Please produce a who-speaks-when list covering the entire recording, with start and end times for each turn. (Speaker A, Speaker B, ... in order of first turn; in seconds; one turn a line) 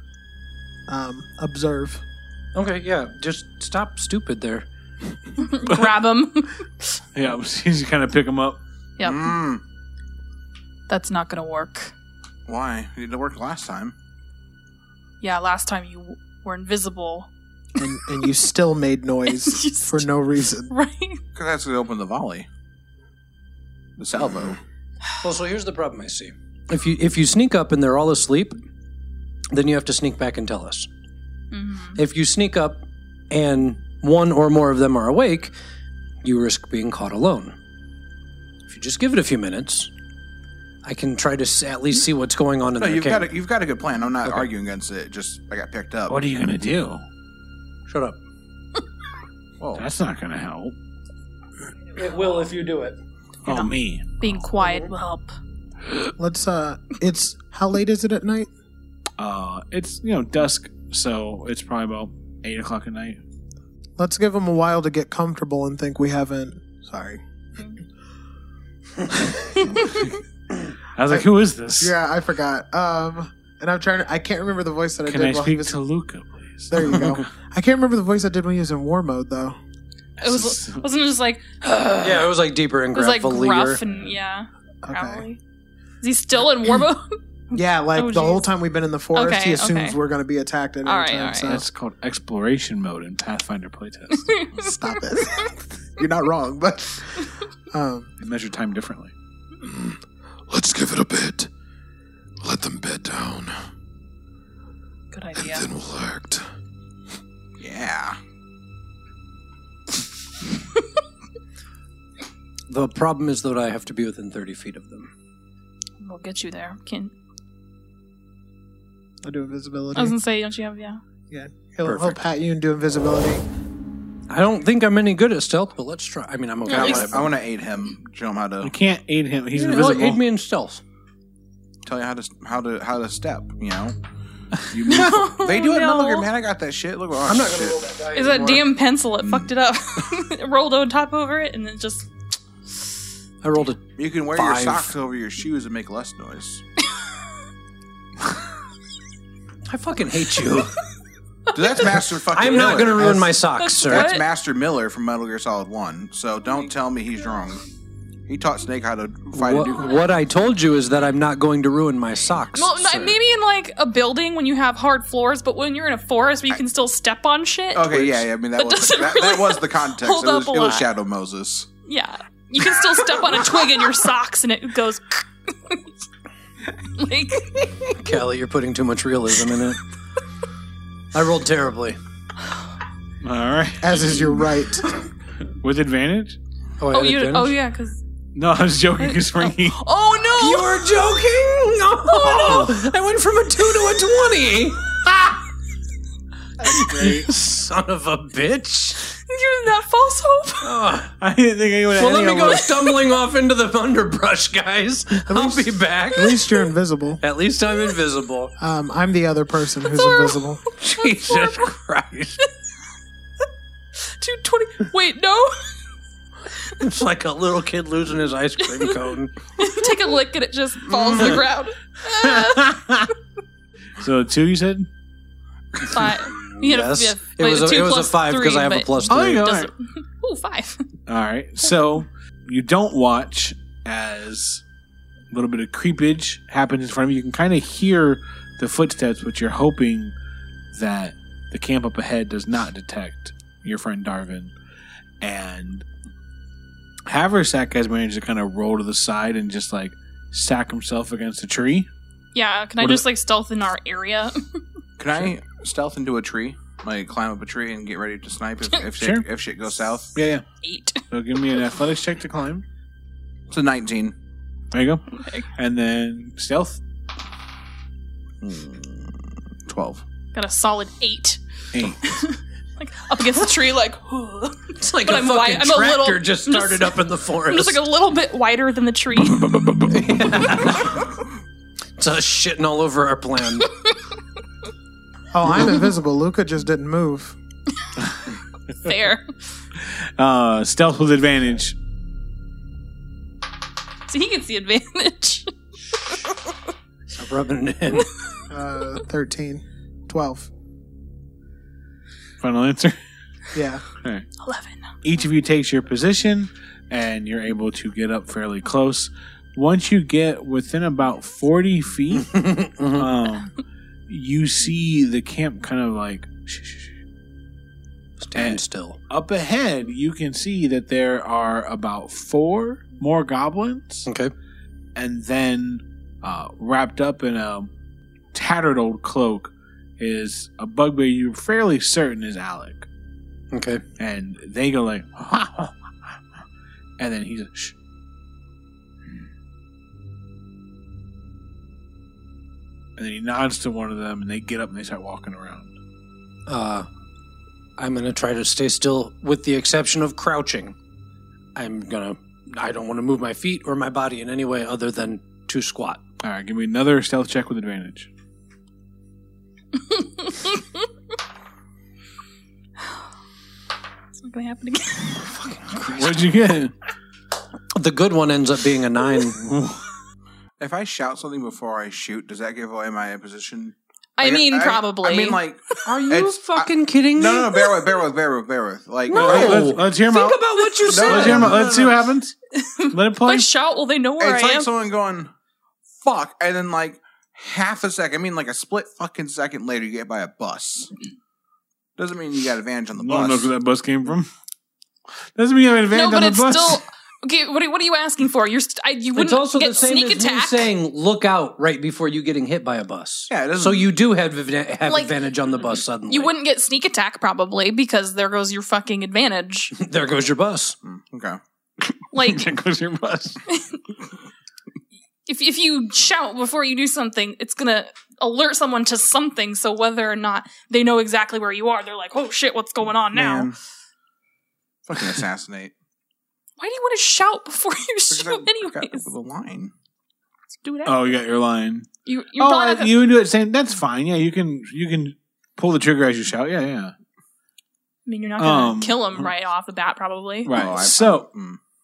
Speaker A: 0.9-2.0
Speaker B: 2.5-4.7
Speaker C: 5.4-6.9
Speaker D: 7.1-8.6
Speaker C: 9.0-9.4
Speaker E: 9.0-9.6
Speaker C: 10.9-11.9
Speaker E: 12.5-14.0
Speaker C: 15.2-17.3
Speaker A: 17.8-20.7
Speaker C: 19.3-20.1
Speaker C: 20.7-21.2
Speaker E: 21.4-22.5
Speaker E: 24.0-24.6
Speaker B: 25.2-28.6
Speaker B: 29.5-30.9
Speaker C: 31.5-32.0
Speaker B: 32.0-35.5
Speaker B: 36.2-37.6
Speaker B: 38.7-39.9
Speaker B: 40.8-43.4
Speaker E: 42.8-46.2
Speaker D: 46.1-47.0
Speaker B: 47.9-48.2
Speaker E: 49.6-49.9
Speaker D: 49.8-50.8
Speaker B: 52.0-53.0
Speaker D: 53.5-54.3
Speaker C: 53.5-55.4
Speaker A: 56.2-58.5
Speaker D: 59.2-63.2
Speaker A: 64.0-67.2
Speaker A: 69.1-69.8
Speaker D: 71.0-71.9
Speaker A: 71.8-75.8
Speaker D: 75.1-77.2
Speaker A: 76.7-79.6
Speaker D: 80.2-80.9
Speaker C: 80.2-82.3
Speaker B: 81.9-83.8
Speaker C: 83.0-85.4
Speaker A: 84.8-85.3
Speaker C: 86.0-88.4
Speaker A: 87.5-91.7
Speaker C: 89.1-90.0
Speaker C: 90.8-91.6
Speaker D: 91.5-94.3
Speaker C: 94.2-95.5
Speaker A: 94.5-98.1
Speaker D: 98.2-99.1
Speaker F: 99.6-101.5
Speaker F: 102.4-103.6
Speaker C: 105.1-105.7
Speaker F: 105.4-106.5
Speaker E: 107.6-108.2
Speaker B: 112.7-115.1
Speaker C: 116.0-117.1
Speaker A: 119.2-120.2
Speaker C: 120.0-121.0
Speaker A: 121.3-123.5
Speaker B: 121.8-122.2
Speaker B: 124.3-127.4
Speaker C: 126.7-127.0
Speaker E: 126.7-128.7
Speaker D: 128.6-130.2
Speaker B: 129.5-130.8
Speaker E: 131.9-134.0
Speaker E: 134.7-137.9
Speaker C: 134.9-136.3
Speaker B: 137.3-138.7
Speaker C: 138.1-142.1
Speaker E: 139.2-139.5
Speaker B: 143.4-144.9
Speaker E: 144.0-146.6
Speaker B: 149.7-150.8
Speaker C: 151.5-152.0
Speaker E: 151.5-157.6
Speaker B: 152.3-154.1
Speaker C: 153.6-154.2
Speaker E: 158.3-160.1
Speaker B: 159.3-163.2
Speaker C: 162.5-170.9
Speaker E: 167.7-171.7
Speaker C: 171.8-175.9
Speaker C: 176.9-177.9
Speaker B: 178.0-179.8
Speaker B: 181.1-182.0
Speaker D: 183.2-184.4
Speaker A: 183.8-184.9
Speaker D: 185.5-186.4
Speaker B: 186.8-187.6
Speaker C: 186.9-188.0
Speaker D: 188.3-189.8
Speaker C: 189.0-190.9
Speaker B: 190.4-194.9
Speaker C: 192.1-192.8
Speaker D: 196.6-197.3
Speaker B: 196.7-199.1
Speaker C: 199.3-200.7
Speaker B: 200.6-201.1
Speaker D: 201.2-202.7
Speaker B: 201.9-206.4
Speaker A: 205.3-207.2
Speaker B: 207.2-208.5
Speaker A: 208.6-210.6
Speaker C: 209.9-211.7
Speaker B: 210.8-212.4
Speaker C: 214.0-215.7
Speaker B: 216.8-219.3
Speaker C: 218.6-219.0
Speaker C: 219.6-223.1
Speaker D: 222.2-223.1
Speaker D: 224.0-224.9
Speaker C: 225.8-230.8
Speaker B: 225.9-229.5
Speaker D: 229.1-229.7
Speaker D: 231.1-234.6
Speaker D: 235.3-240.1
Speaker D: 240.7-244.5
Speaker D: 245.2-245.9
Speaker D: 247.1-251.9
Speaker C: 252.3-254.4
Speaker E: 255.0-260.1
Speaker D: 259.0-259.2
Speaker D: 260.1-260.4
Speaker C: 260.6-261.0
Speaker D: 261.1-262.6
Speaker E: 263.5-264.1
Speaker D: 264.7-266.8
Speaker C: 265.1-265.5
Speaker E: 268.4-269.1
Speaker E: 269.7-270.0
Speaker C: 270.3-271.4
Speaker D: 271.7-272.2
Speaker C: 272.0-279.7
Speaker B: 274.8-277.8
Speaker D: 279.3-280.2
Speaker B: 279.9-281.1
Speaker B: 282.0-283.7
Speaker C: 283.6-283.9
Speaker A: 285.3-287.4
Speaker C: 288.8-289.3
Speaker D: 289.8-291.8
Speaker C: 294.1-296.3
Speaker B: 297.2-298.1
Speaker A: 298.5-300.5
Speaker D: 302.4-303.0
Speaker A: 303.5-303.8
Speaker D: 304.0-304.3
Speaker C: 304.4-304.9
Speaker D: 305.0-313.6
Speaker B: 312.3-313.1
Speaker D: 314.1-317.0
Speaker B: 318.2-319.0
Speaker D: 318.4-324.1
Speaker B: 324.1-324.3
Speaker D: 324.9-327.7
Speaker D: 328.3-332.9
Speaker B: 333.5-333.8
Speaker D: 334.0-335.7
Speaker D: 337.0-337.8
Speaker D: 343.0-345.7
Speaker B: 346.5-346.9
Speaker B: 347.8-350.8
Speaker B: 351.6-356.0
Speaker D: 356.2-358.1
Speaker C: 359.8-360.8
Speaker C: 364.2-365.9
Speaker D: 365.8-366.7
Speaker B: 367.8-369.5
Speaker D: 369.4-369.8
Speaker E: 370.6-379.8
Speaker C: 374.2-375.8
Speaker B: 375.8-377.6
Speaker B: 379.1-381.9
Speaker D: 379.1-382.4
Speaker C: 380.6-381.3
Speaker E: 380.9-382.0
Speaker C: 382.5-384.7
Speaker D: 382.9-383.5
Speaker E: 384.2-385.3
Speaker E: 386.0-390.9
Speaker E: 392.0-393.5
Speaker D: 393.0-394.3
Speaker D: 395.4-396.8
Speaker C: 395.9-400.7
Speaker B: 399.1-406.3
Speaker E: 403.3-403.9
Speaker C: 404.9-405.2
Speaker C: 406.1-409.7
Speaker B: 409.7-410.8
Speaker E: 410.8-411.4
Speaker D: 411.9-413.4
Speaker C: 412.1-412.5
Speaker C: 413.5-413.8
Speaker C: 415.3-423.5
Speaker E: 423.1-423.6
Speaker E: 424.9-425.7
Speaker C: 426.6-429.1
Speaker E: 428.1-429.7
Speaker C: 430.6-431.2
Speaker D: 430.9-436.9
Speaker C: 432.1-433.0
Speaker C: 438.1-440.6
Speaker D: 438.4-439.3
Speaker D: 440.4-441.3
Speaker E: 440.5-441.6